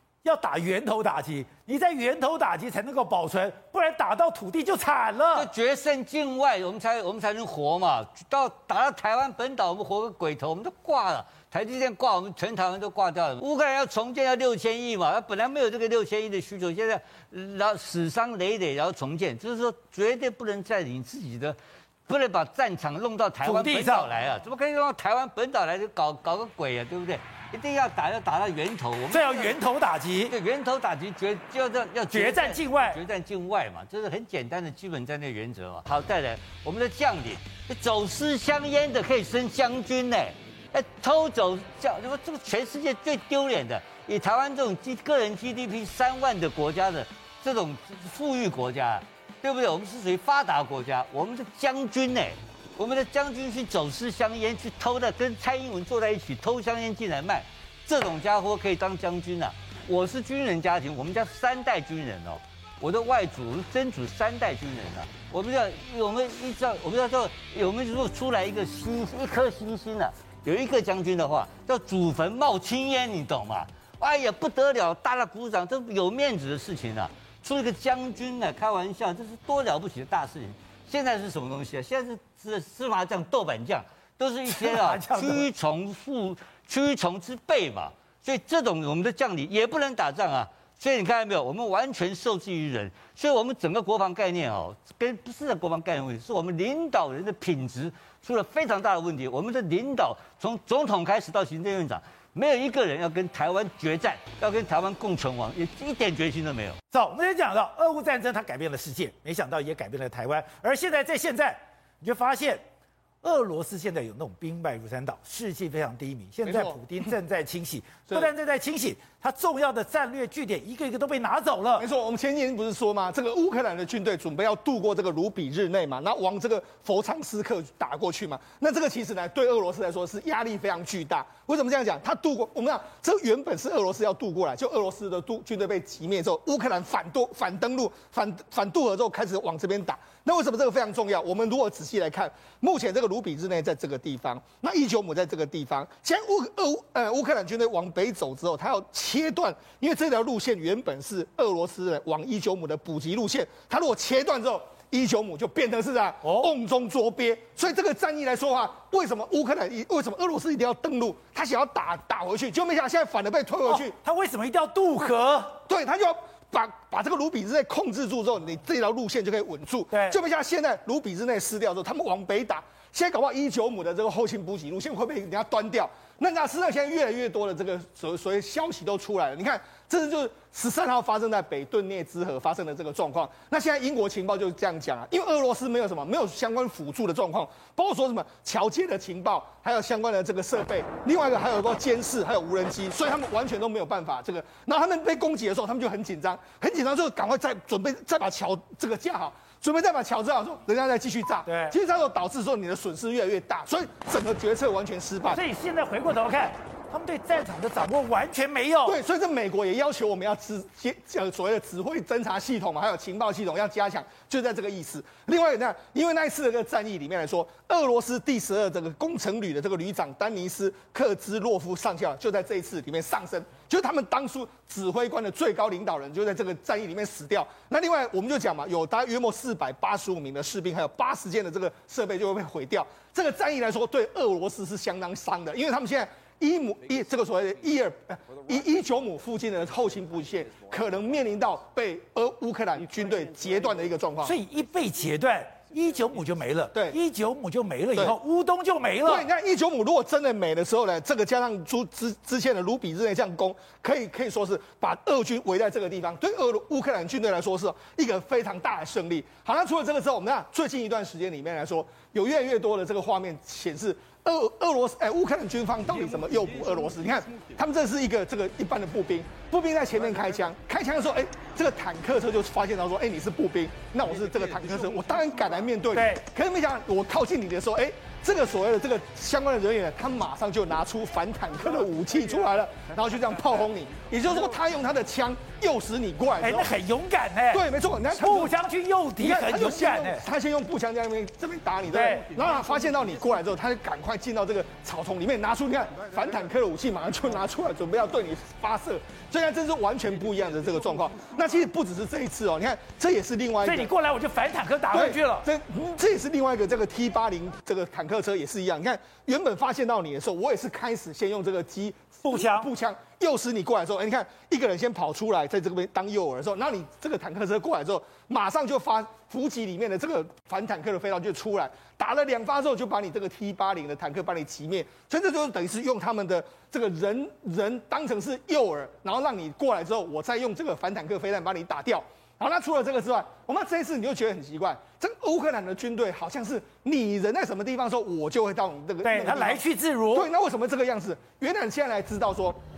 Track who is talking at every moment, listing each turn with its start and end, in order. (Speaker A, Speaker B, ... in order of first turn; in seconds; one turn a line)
Speaker A: 0.2-5.5
Speaker B: 5.3-21.6
Speaker B: 22.1-29.6
Speaker A: 23.4-24.1
Speaker A: 29.1-30.3
Speaker B: 30.3-106.8
Speaker A: 32.1-33.0
Speaker A: 84.5-85.5
Speaker A: 106.9-112.6
Speaker A: 113.2-121.8
Speaker C: 116.4-116.8
Speaker C: 121.8-163.9
Speaker A: 156.2-156.5
Speaker A: 163.7-165.6
Speaker C: 165.7-205.4
Speaker A: 169.9-170.2
Speaker A: 201.4-201.7
Speaker A: 205.3-209.0
Speaker C: 208.8-244.4
Speaker A: 244.2-249.2
Speaker C: 246.7-247.0
Speaker C: 249.0-286.8
Speaker A: 275.9-276.2
Speaker A: 286.4-290.2
Speaker C: 287.5-288.6
Speaker C: 289.2-303.9
Speaker A: 291.9-292.3
Speaker A: 303.6-305.5
Speaker C: 304.9-342.6
Speaker A: 312.2-312.7
Speaker A: 339.0-340.3